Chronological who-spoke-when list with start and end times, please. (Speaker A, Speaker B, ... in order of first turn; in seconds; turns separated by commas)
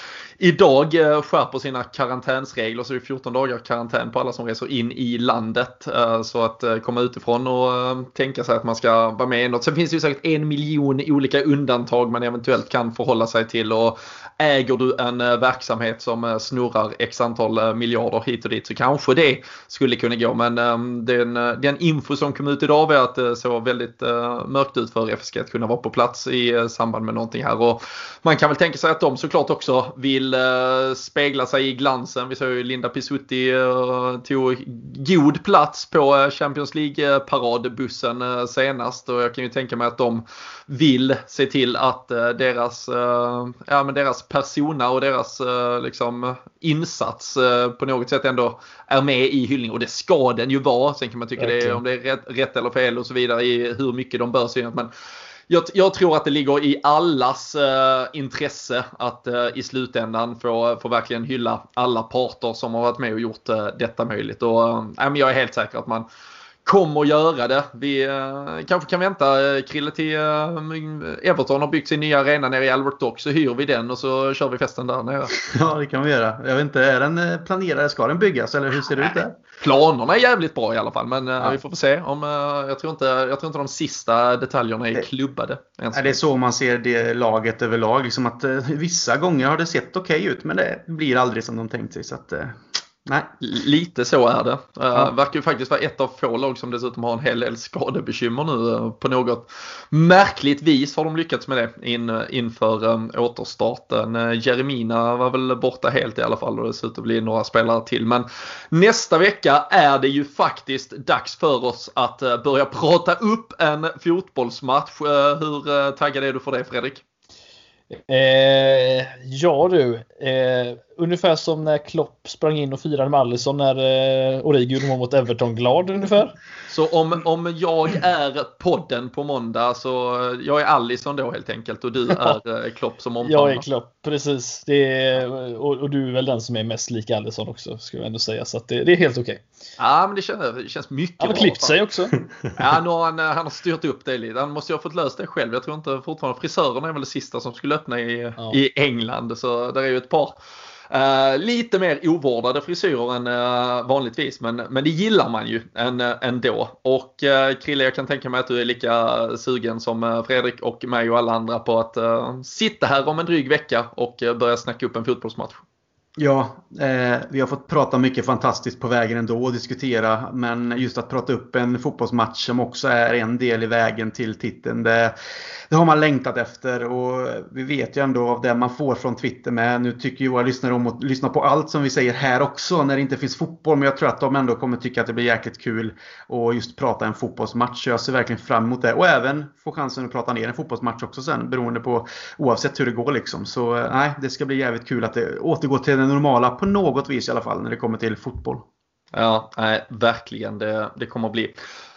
Speaker A: 0.4-54.9, Speaker B: 51.4-51.8, Speaker A: 55.5-66.0, Speaker A: 66.6-75.3, Speaker C: 75.4-79.3, Speaker A: 79.6-86.2, Speaker C: 85.9-93.3, Speaker A: 93.4-117.0, Speaker B: 117.9-126.3, Speaker A: 126.7-133.6, Speaker B: 133.2-139.4, Speaker A: 139.8-141.8, Speaker B: 141.2-142.2, Speaker A: 142.5-150.3, Speaker A: 150.9-165.6, Speaker C: 166.2-175.1, Speaker C: 175.7-198.6, Speaker A: 199.1-201.6